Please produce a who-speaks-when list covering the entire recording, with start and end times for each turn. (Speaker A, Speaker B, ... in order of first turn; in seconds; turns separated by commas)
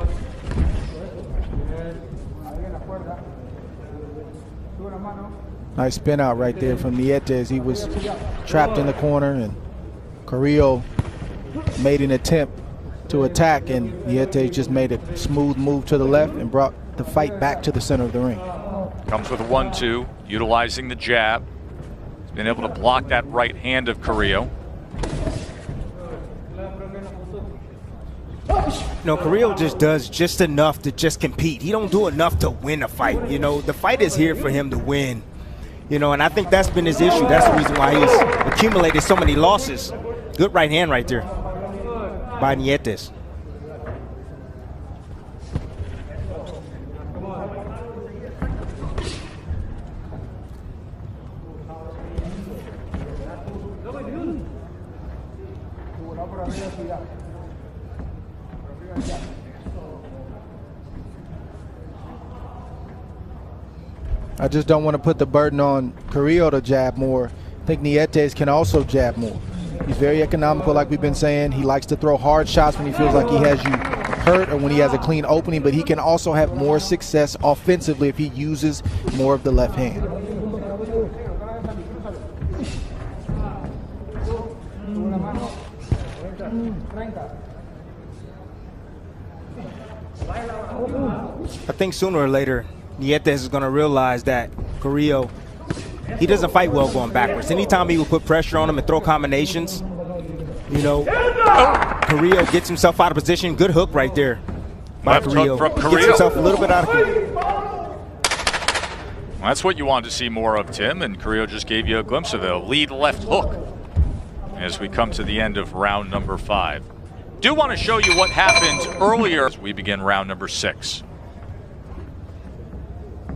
Speaker A: 5.8-9.6, Speaker A: 10.2-10.9, Speaker A: 11.8-12.5, Speaker A: 13.1-18.4, Speaker B: 19.1-21.4, Speaker B: 22.3-24.5, Speaker C: 29.0-35.2, Speaker C: 35.9-41.3, Speaker C: 42.4-43.1, Speaker A: 64.4-80.1, Speaker C: 91.7-95.3, Speaker C: 96.2-99.8, Speaker C: 100.7-101.1, Speaker C: 102.0-104.4, Speaker C: 105.0-107.1, Speaker B: 105.0-106.2, Speaker B: 109.4-113.6, Speaker B: 114.6-116.9, Speaker B: 117.4-121.0